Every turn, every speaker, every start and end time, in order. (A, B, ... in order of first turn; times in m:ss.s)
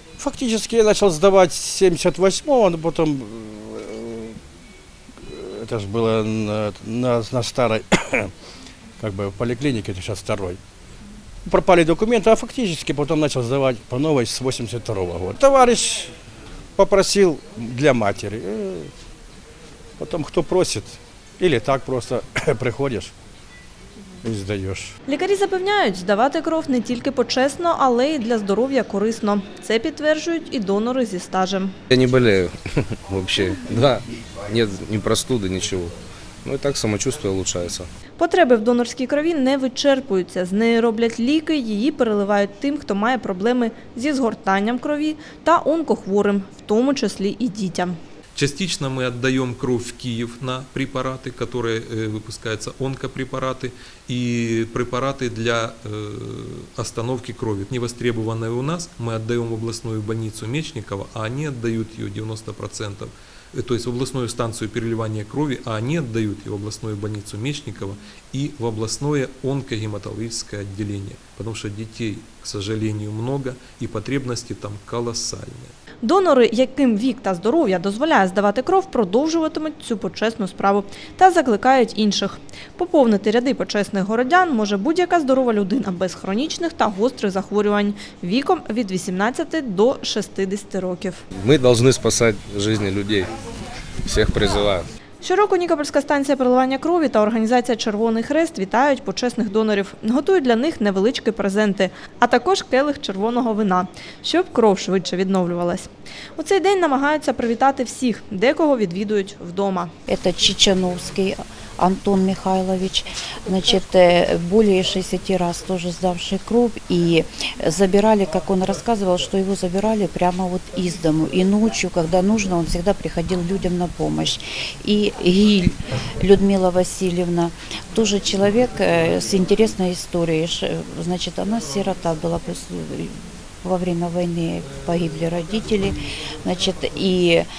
0:00.2-0:04.4 A
0:05.2-0:08.3 A
0:09.0-0:10.6 A
0:11.5-0:16.1 A
0:16.8-0:18.9 A
0:20.0-0:23.1 A
0:24.2-0:24.9 A
0:25.1-0:31.7 B
0:31.9-0:37.9 C
0:38.2-0:48.0 B
0:48.3-1:15.7 D
1:16.0-1:31.2 B
1:31.4-1:33.3 C
1:34.0-1:34.9 C
1:35.2-1:49.9 B
1:50.1-2:17.4 E